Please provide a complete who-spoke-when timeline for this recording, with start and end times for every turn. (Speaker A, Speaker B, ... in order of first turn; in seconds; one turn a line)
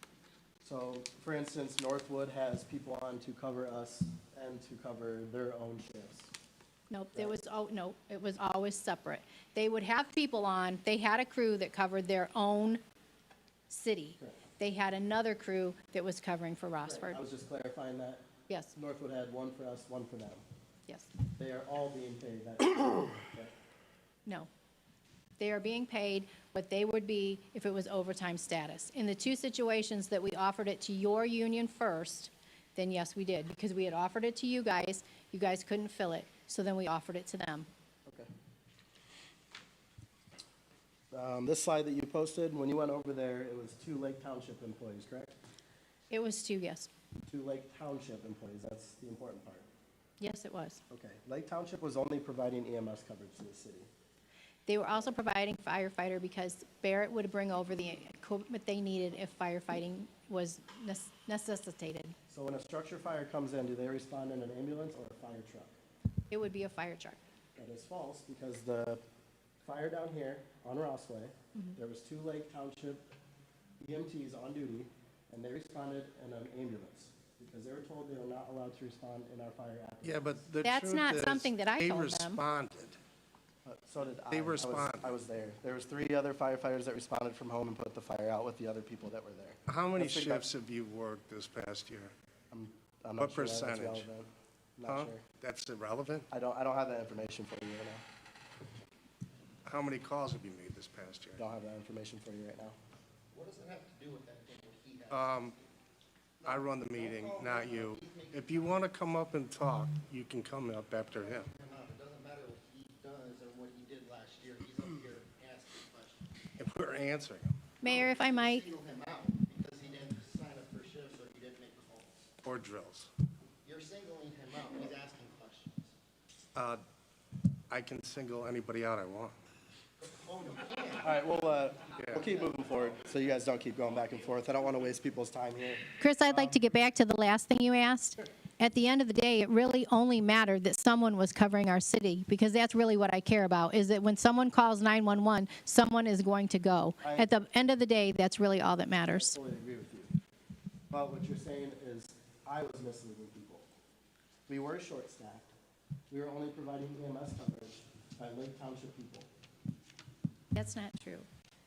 Speaker A: 0.6-6.3
Speaker B: 6.9-12.8
Speaker B: 13.7-17.2
Speaker A: 16.8-18.2
Speaker B: 18.5-18.7
Speaker A: 18.7-20.4
Speaker A: 21.3-23.5
Speaker B: 25.4-37.7
Speaker A: 41.1-45.4
Speaker B: 46.1-46.9
Speaker A: 47.3-49.7
Speaker B: 50.2-50.8
Speaker A: 50.9-53.9
Speaker B: 54.7-62.1
Speaker A: 62.3-65.7
Speaker B: 66.3-67.2
Speaker A: 67.5-69.0
Speaker A: 69.6-73.1
Speaker A: 73.8-80.4
Speaker C: 80.0-83.0
Speaker B: 80.6-82.4
Speaker A: 83.6-90.5
Speaker C: 84.3-85.1
Speaker C: 89.7-92.1
Speaker A: 92.5-95.2
Speaker C: 93.2-94.1
Speaker C: 94.9-96.3
Speaker A: 96.3-98.0
Speaker C: 99.6-101.4
Speaker A: 101.4-102.8
Speaker D: 103.3-105.7
Speaker C: 105.1-105.5
Speaker D: 106.4-108.8
Speaker C: 106.4-111.5
Speaker D: 111.1-116.2
Speaker C: 116.6-117.5
Speaker B: 117.8-118.7
Speaker D: 117.8-122.2
Speaker C: 122.4-123.1
Speaker D: 123.6-125.9
Speaker C: 126.5-126.8
Speaker C: 127.7-129.3
Speaker D: 130.0-132.9
Speaker A: 130.9-136.6
Speaker C: 132.0-132.4
Speaker B: 136.0-149.3
Speaker A: 147.0-147.3
Speaker A: 149.1-150.1
Speaker A: 150.9-153.7
Speaker A: 154.5-155.5
Speaker A: 156.1-159.3
Speaker B: 160.5-161.3